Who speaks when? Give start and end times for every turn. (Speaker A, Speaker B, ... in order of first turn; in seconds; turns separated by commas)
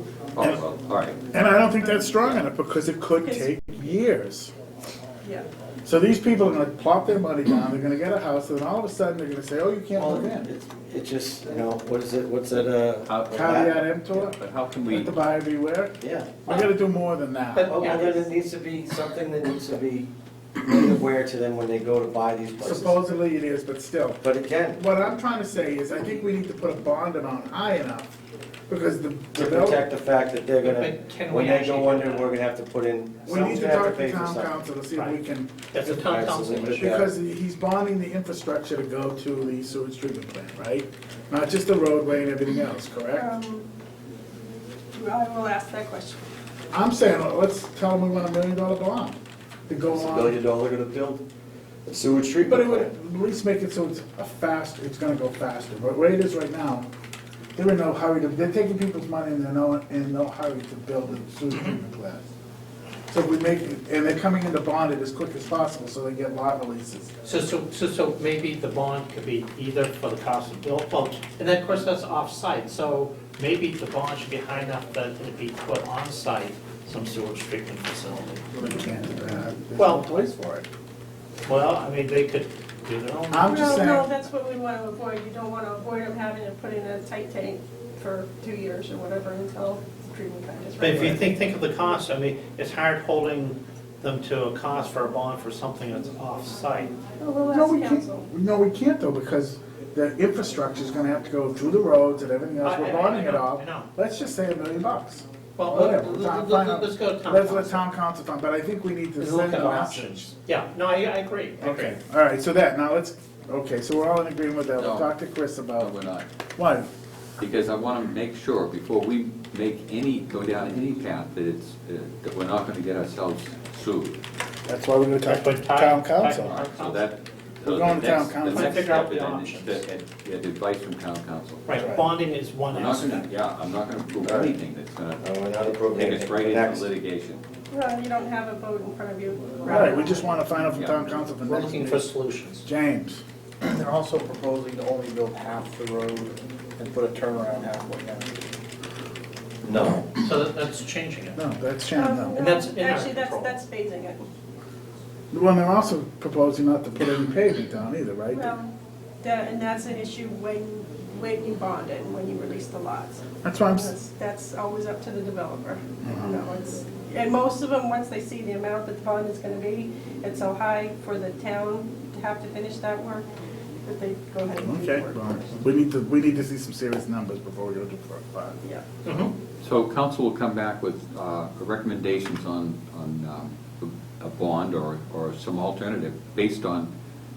Speaker A: 0.3-1.2, Speaker B: 1.3-4.5, Speaker C: 3.2-3.5, Speaker B: 5.8-10.5, Speaker D: 9.9-13.9, Speaker A: 12.6-13.5, Speaker B: 13.3-17.7, Speaker A: 14.1-15.1, Speaker D: 16.0-16.4, Speaker E: 17.5-18.2, Speaker D: 17.7-23.0, Speaker B: 22.6-28.1, Speaker D: 24.2-24.8, Speaker B: 28.7-29.9, Speaker D: 29.3-34.6, Speaker E: 30.6-32.3, Speaker B: 33.2-36.1, Speaker E: 35.7-36.9, Speaker D: 36.0-37.1, Speaker B: 36.6-43.3, Speaker C: 43.1-43.7, Speaker C: 44.9-46.2, Speaker B: 46.7-50.3, Speaker D: 49.9-51.2, Speaker D: 51.9-52.9, Speaker B: 52.4-56.9, Speaker B: 57.5-62.2, Speaker B: 63.1-67.1, Speaker E: 67.2-78.4, Speaker B: 78.5-80.7, Speaker E: 79.8-80.1, Speaker E: 81.5-83.8, Speaker B: 83.3-84.1, Speaker C: 83.5-91.3, Speaker E: 90.8-96.9, Speaker C: 97.2-98.3, Speaker B: 97.5-110.3, Speaker E: 102.6-103.9, Speaker E: 105.6-107.8, Speaker E: 109.2-112.0, Speaker B: 111.6-115.9, Speaker A: 114.8-115.1, Speaker A: 115.8-116.2, Speaker B: 116.6-116.9, Speaker A: 117.4-124.2, Speaker B: 124.7-126.6, Speaker E: 125.2-127.0, Speaker A: 126.5-131.6, Speaker B: 127.7-128.8, Speaker E: 128.5-129.8, Speaker E: 131.7-133.3, Speaker B: 131.8-132.1, Speaker A: 132.7-135.2, Speaker D: 134.2-134.5, Speaker D: 135.2-136.9, Speaker A: 135.9-137.4, Speaker C: 137.7-140.3, Speaker B: 139.6-142.1, Speaker E: 139.7-139.9, Speaker A: 140.8-141.3, Speaker E: 141.4-142.6, Speaker B: 142.6-143.2, Speaker F: 143.6-146.2, Speaker B: 143.8-146.1, Speaker B: 146.8-148.2, Speaker D: 149.6-150.1, Speaker E: 150.1-151.4, Speaker B: 151.3-152.4, Speaker C: 151.9-154.2, Speaker E: 152.3-153.5, Speaker B: 155.3-158.5, Speaker C: 158.3-173.3, Speaker B: 163.4-163.9, Speaker B: 166.0-166.4, Speaker C: 173.8-175.5, Speaker B: 174.6-178.6, Speaker E: 179.0-179.3, Speaker A: 179.6-186.9